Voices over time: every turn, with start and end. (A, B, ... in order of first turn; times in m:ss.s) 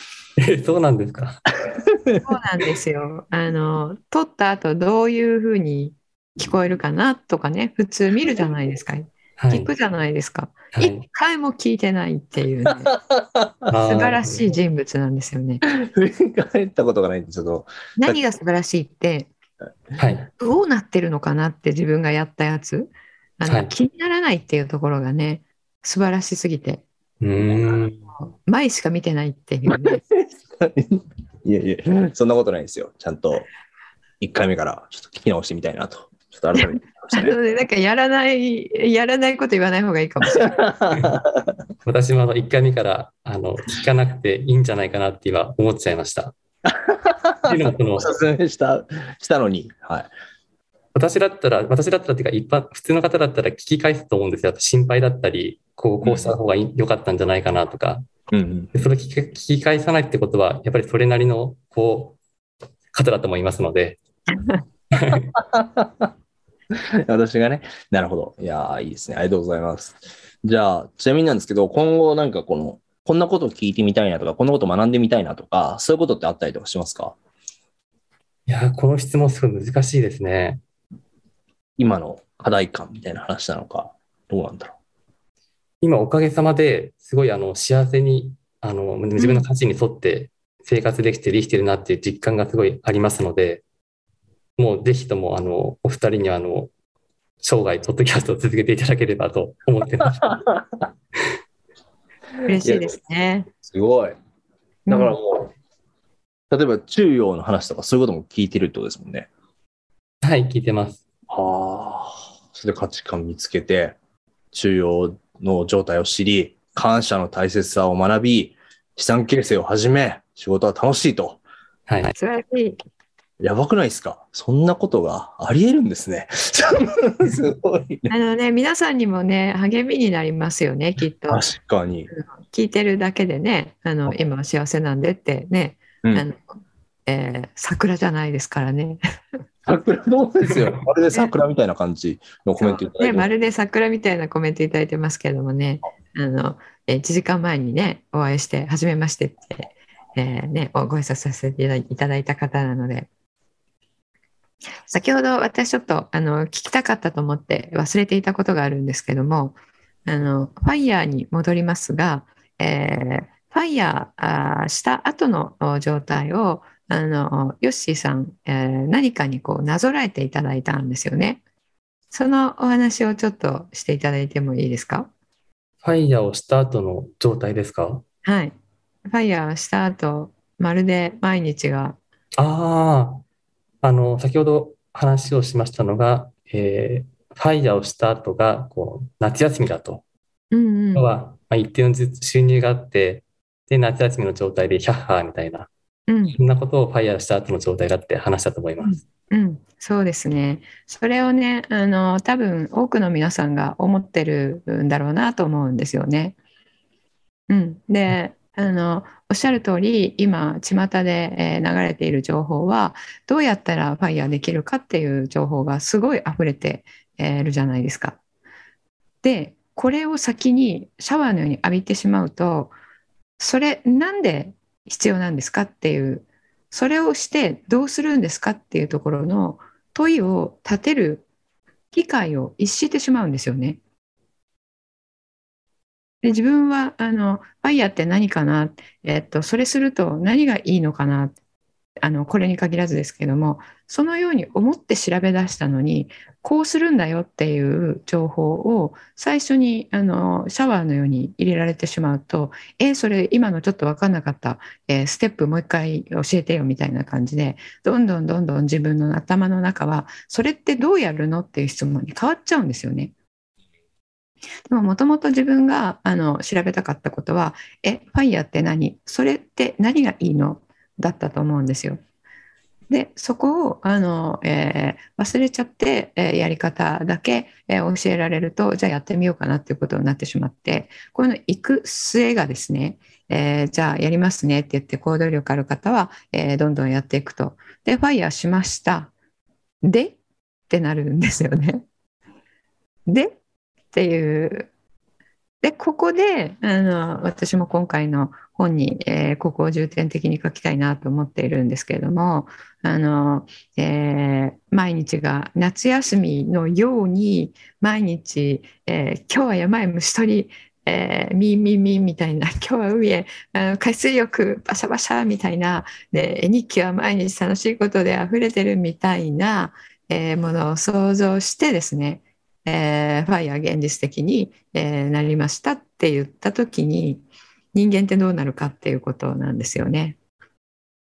0:00.4-0:01.4 A
0:01.7-0:02.2 B
0:02.2-0:12.9 C
0:09.4-0:09.7 A
0:10.7-0:11.0 A
0:12.9-0:13.7 B
0:13.7-0:14.4 A
0:13.8-0:15.6 C
0:15.7-0:18.2 B
0:18.0-0:19.3 C
0:20.0-0:20.3 A
0:20.4-0:26.8 C
0:23.4-0:23.7 A
0:27.2-0:28.0 A
0:28.2-0:30.0 C
0:30.1-0:33.5 B
0:34.2-0:37.4 B
0:36.6-0:40.6 C
0:40.3-0:41.5 B
0:41.8-0:46.3 A
0:46.6-0:50.1 B
0:47.5-0:48.1 A
0:50.9-0:58.1 A
0:56.0-0:56.4 B
0:58.3-0:58.7 B
0:58.7-1:02.2 A
1:02.9-1:04.0 A
1:04.9-1:05.3 A
1:05.3-1:06.1 B
1:06.7-1:17.1 B
1:18.5-1:20.6 A
1:21.8-1:24.7 B
1:25.8-1:33.6 A
1:29.2-1:29.5 C
1:34.6-1:36.7 A
1:37.4-1:40.4 A
1:40.0-1:40.9 B
1:42.4-1:43.5 C
1:42.6-1:43.0 B
1:43.6-1:44.2 B
1:44.9-1:45.2 C
1:44.9-1:45.5 B
1:46.5-1:49.3 B
1:50.2-1:51.0 A
1:51.3-1:54.0 B
1:54.5-2:01.4 B
2:01.9-2:02.1 A
2:02.1-2:02.8 C
2:03.4-2:08.1 B
2:08.1-2:11.4 C
2:11.3-2:12.1 B
2:12.1-2:16.4 C
2:17.0-2:19.0 C
2:19.6-2:23.3 B
2:22.6-2:33.1 C
2:34.8-2:51.4 C
2:52.1-2:55.1 C
2:55.8-2:58.0 A
2:58.2-2:58.5 C
2:59.1-3:02.0 C
3:02.4-3:03.2 A
3:03.8-3:10.0 A
3:10.5-3:11.1 C
3:10.9-3:15.7 A
3:16.1-3:16.4 C
3:16.4-3:19.0 A
3:18.8-3:26.4 C
3:27.5-3:38.2 C
3:39.2-3:42.7 C
3:43.4-3:51.2 C
3:51.9-3:53.8 C
3:56.2-4:01.3 C
4:02.0-4:23.1 C
4:24.7-4:32.0 C
4:32.9-4:49.1 C
4:49.8-4:50.2 C
4:50.7-4:51.8 C
4:53.0-4:53.4 C
4:53.9-4:54.7 C
4:55.6-5:30.2 C